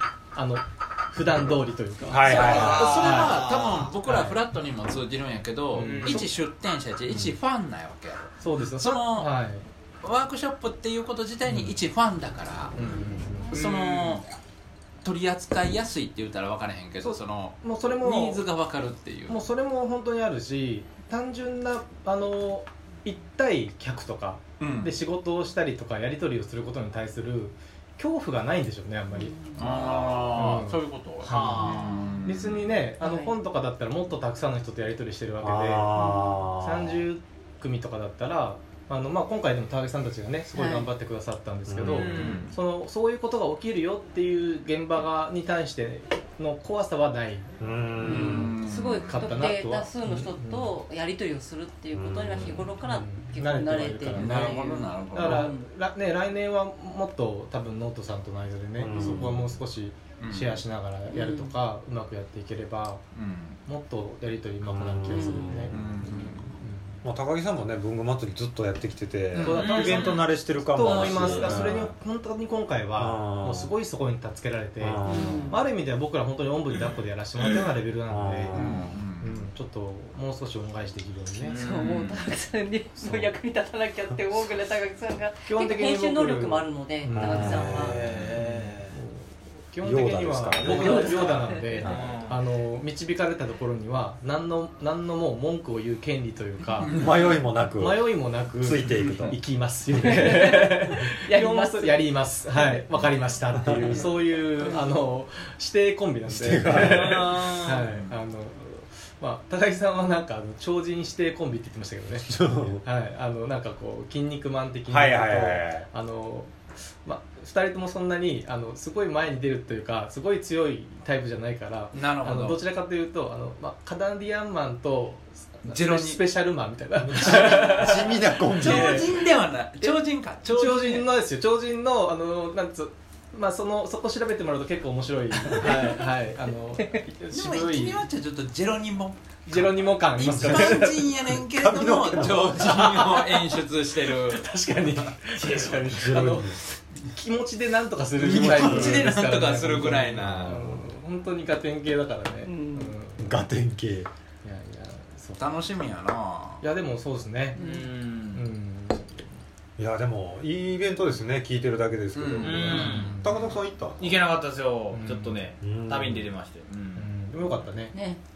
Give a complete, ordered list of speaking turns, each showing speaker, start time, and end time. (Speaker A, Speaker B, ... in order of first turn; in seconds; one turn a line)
Speaker A: 0.3-3.5
Speaker B: 2.1-3.0
Speaker C: 2.2-9.3
Speaker D: 2.3-3.9
Speaker A: 4.0-4.4
Speaker A: 5.7-6.3
Speaker D: 5.8-6.2
Speaker A: 8.4-9.7
Speaker C: 10.0-12.8
Speaker A: 11.5-11.7
Speaker A: 12.7-13.6
Speaker C: 13.5-14.3
Speaker D: 13.6-14.2
Speaker C: 15.0-19.4
Speaker A: 17.0-18.4
Speaker A: 19.3-48.5
Speaker C: 24.6-24.9
Speaker E: 29.1-29.8
Speaker C: 29.5-32.8
Speaker D: 31.3-32.1
Speaker E: 33.0-33.3
Speaker B: 35.4-37.0
Speaker E: 35.9-36.4
Speaker E: 40.5-40.9
Speaker B: 41.7-42.4
Speaker D: 41.9-42.5
Speaker B: 47.6-48.5
Speaker C: 48.0-49.4
Speaker E: 48.0-55.7
Speaker A: 49.1-50.7
Speaker B: 51.9-52.7
Speaker A: 52.8-63.0
Speaker C: 54.1-55.5
Speaker B: 58.8-59.5
Speaker C: 60.2-60.6
Speaker E: 61.1-61.5
Speaker C: 63.1-63.6
Speaker A: 63.6-67.0
Speaker B: 64.6-66.2
Speaker E: 65.1-65.7
Speaker C: 65.7-66.5
Speaker B: 67.0-71.9
Speaker A: 69.4-81.6
Speaker D: 69.4-70.2
Speaker E: 70.8-71.6
Speaker B: 73.0-73.7
Speaker B: 74.8-75.5
Speaker E: 75.0-75.6
Speaker B: 78.1-79.0
Speaker C: 78.5-79.4
Speaker D: 81.4-82.2
Speaker E: 81.5-88.1
Speaker A: 85.4-96.9
Speaker B: 87.1-88.3
Speaker D: 87.7-89.0
Speaker B: 89.8-92.1
Speaker D: 90.6-92.3
Speaker E: 90.7-91.9
Speaker C: 96.8-97.4
Speaker B: 96.9-99.4
Speaker A: 97.8-129.1
Speaker C: 98.9-99.3
Speaker E: 100.0-103.1
Speaker B: 103.5-104.0
Speaker E: 103.8-105.0
Speaker B: 106.3-107.2
Speaker D: 106.8-107.8
Speaker B: 112.3-112.8
Speaker B: 114.9-115.9
Speaker C: 121.9-122.6
Speaker C: 125.7-126.2
Speaker B: 127.0-129.1
Speaker C: 127.2-127.7
Speaker C: 128.4-131.1
Speaker A: 130.4-138.0
Speaker C: 137.3-144.4
Speaker A: 139.5-141.1
Speaker B: 140.2-142.9
Speaker A: 142.6-153.4
Speaker D: 145.4-145.8
Speaker B: 145.8-146.6
Speaker C: 148.2-150.6
Speaker B: 148.3-149.1
Speaker B: 150.2-150.8
Speaker E: 152.4-153.0
Speaker B: 153.2-154.1
Speaker A: 154.4-155.4
Speaker C: 155.4-156.6
Speaker A: 156.6-157.6
Speaker D: 157.5-158.4
Speaker E: 157.6-157.9
Speaker A: 158.3-159.3
Speaker B: 159.8-164.2
Speaker C: 162.1-163.1
Speaker D: 162.4-163.2
Speaker A: 162.6-163.3
Speaker D: 164.0-167.1
Speaker A: 164.9-165.4
Speaker B: 165.6-166.3
Speaker A: 166.9-167.9
Speaker E: 167.9-168.2